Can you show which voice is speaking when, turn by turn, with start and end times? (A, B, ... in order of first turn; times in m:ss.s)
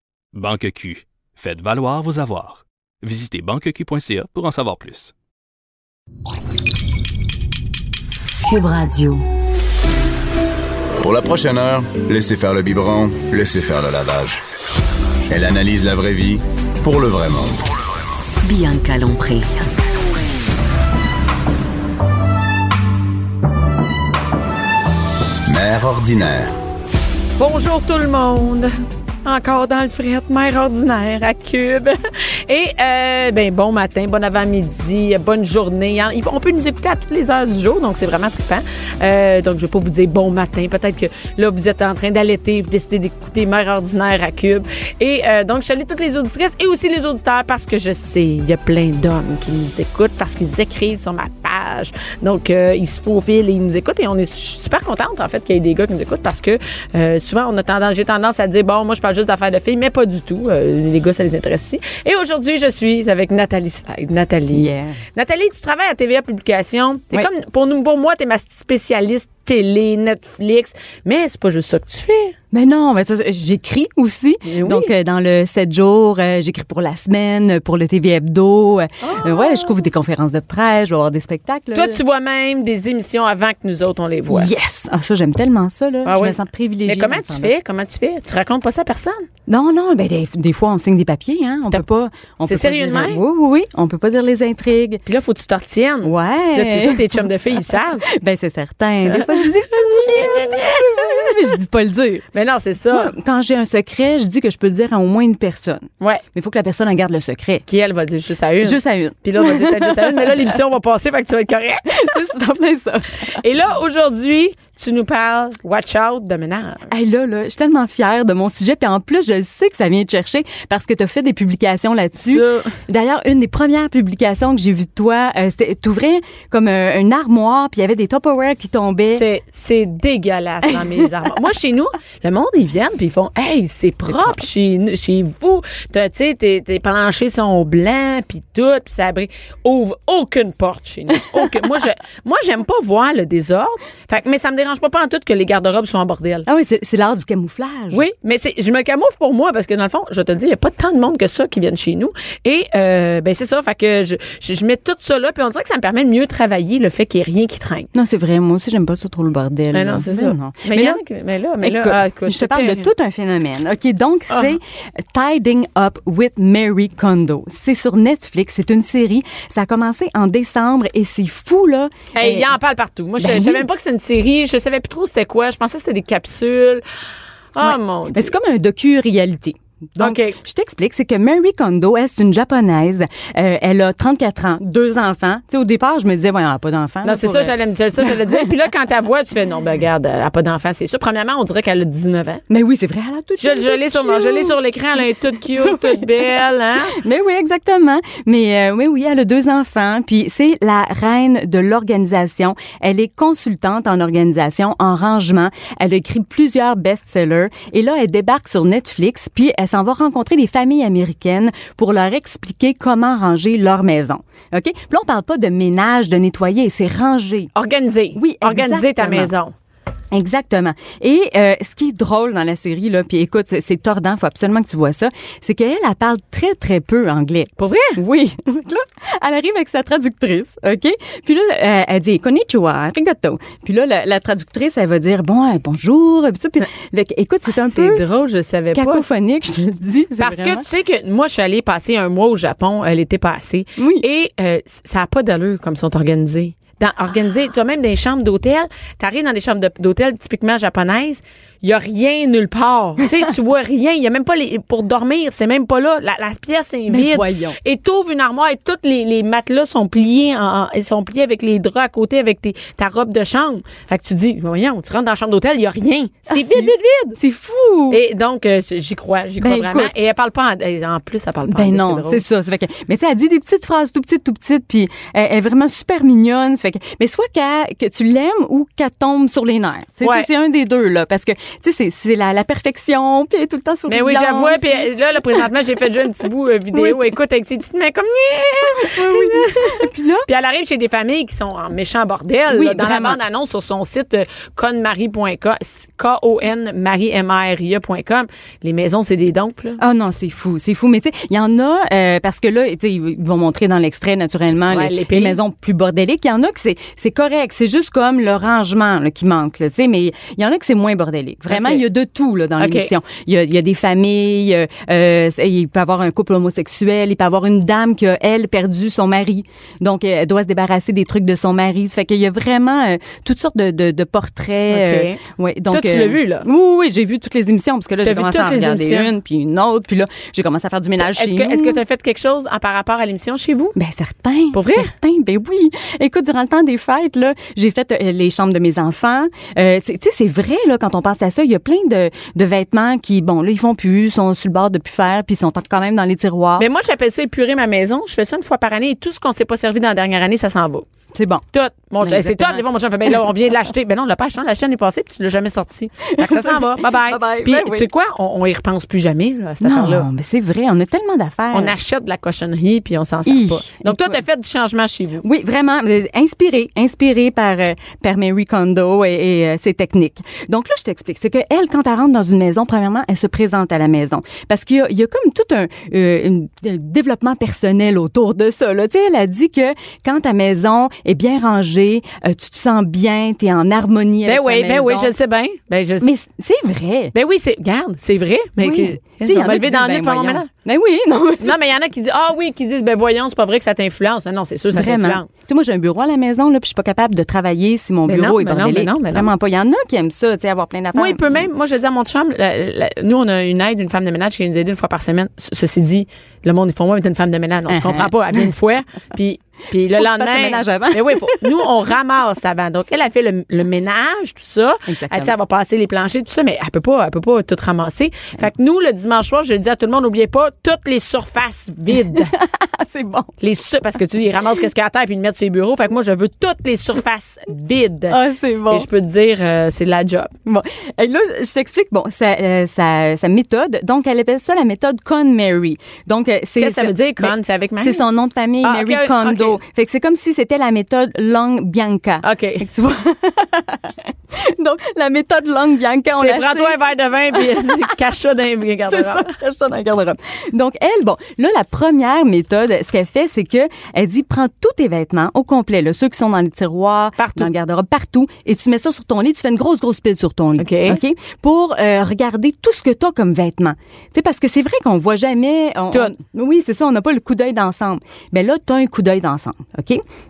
0:00.3-0:05.1 A
0:08.4-0:09.2 B
0:11.0-0:14.4 C
0:15.3-0:17.6 C
0:18.4-0:19.7 B
0:25.5-0:26.5 C
0:27.4-0:28.7 D
0:29.2-1:12.4 D
1:04.5-1:05.0 E
1:12.5-1:22.0 E
1:14.5-1:14.9 D
1:19.0-1:19.8 D
1:21.7-1:24.5 D
1:24.3-1:27.5 E
1:26.0-1:29.2 D
1:29.5-1:35.0 E
1:32.5-1:33.2 D
1:35.1-1:38.0 D
1:36.0-1:42.2 E
1:39.1-1:41.5 D
1:42.3-1:43.1 D
1:42.9-1:47.6 E
1:47.7-1:52.2 D
1:48.6-1:50.6 E
1:51.9-1:53.4 E
1:53.3-1:56.9 D
1:56.9-2:09.2 E
2:02.2-2:02.7 D
2:09.2-2:26.5 D
2:21.4-2:21.6 E
2:26.5-2:28.0 E
2:27.9-2:37.9 D
2:37.9-2:41.0 E
2:39.7-2:42.9 D
2:41.6-2:52.5 E
2:44.3-2:44.6 D
2:52.2-2:56.8 D
2:53.2-2:53.7 E
2:57.6-2:58.3 D
2:57.6-3:08.5 E
3:00.0-3:00.4 D
3:07.0-3:12.4 D
3:12.5-3:14.6 E
3:13.4-3:17.0 D
3:15.6-3:16.1 E
3:16.9-3:37.5 E
3:37.6-3:39.5 D
3:38.2-3:39.3 E
3:40.1-3:58.0 E
3:47.6-3:48.0 D
3:57.6-3:59.1 D
3:58.7-4:00.7 E
4:00.2-4:27.2 D
4:03.8-4:04.0 E
4:16.9-4:17.6 E
4:26.3-4:28.0 E
4:27.9-4:32.2 D
4:29.4-4:29.9 E
4:31.5-4:44.9 E
4:40.0-4:40.3 D
4:43.9-4:59.8 D
4:46.7-4:47.0 E
4:48.6-4:50.3 E
4:52.5-4:53.2 E
4:59.8-5:31.8 E
5:04.7-5:05.4 D
5:11.5-5:11.8 D
5:12.6-5:12.9 D
5:24.7-5:25.2 D
5:25.7-5:26.5 D
5:28.0-5:29.1 D
5:31.0-5:33.8 D
5:33.8-5:46.7 E
5:34.5-5:34.9 D
5:46.6-5:50.9 D
5:51.1-5:51.4 E
5:51.5-6:00.1 D
5:52.0-5:52.6 E
5:56.0-5:57.9 E
5:59.6-6:01.7 E
6:01.5-6:05.2 D
6:03.3-6:04.2 E
6:05.2-6:25.1 E
6:24.2-6:26.1 D
6:26.0-6:27.1 E
6:27.1-6:30.5 D
6:28.6-6:31.6 E
6:31.4-6:35.3 D
6:34.7-6:41.4 E
6:38.1-6:39.3 D
6:40.9-7:02.3 D
6:47.7-6:48.5 E
6:49.8-6:51.6 E
6:54.9-6:55.3 E
7:02.1-7:03.3 E
7:03.4-7:08.2 D
7:08.1-7:08.9 E
7:08.7-7:10.3 D
7:10.5-7:26.8 E
7:16.6-7:18.0 D
7:18.6-7:19.6 D
7:22.2-7:22.7 D
7:26.2-7:29.3 D
7:27.3-7:27.9 E
7:28.9-7:50.0 E
7:37.2-7:37.5 D
7:40.6-7:41.0 D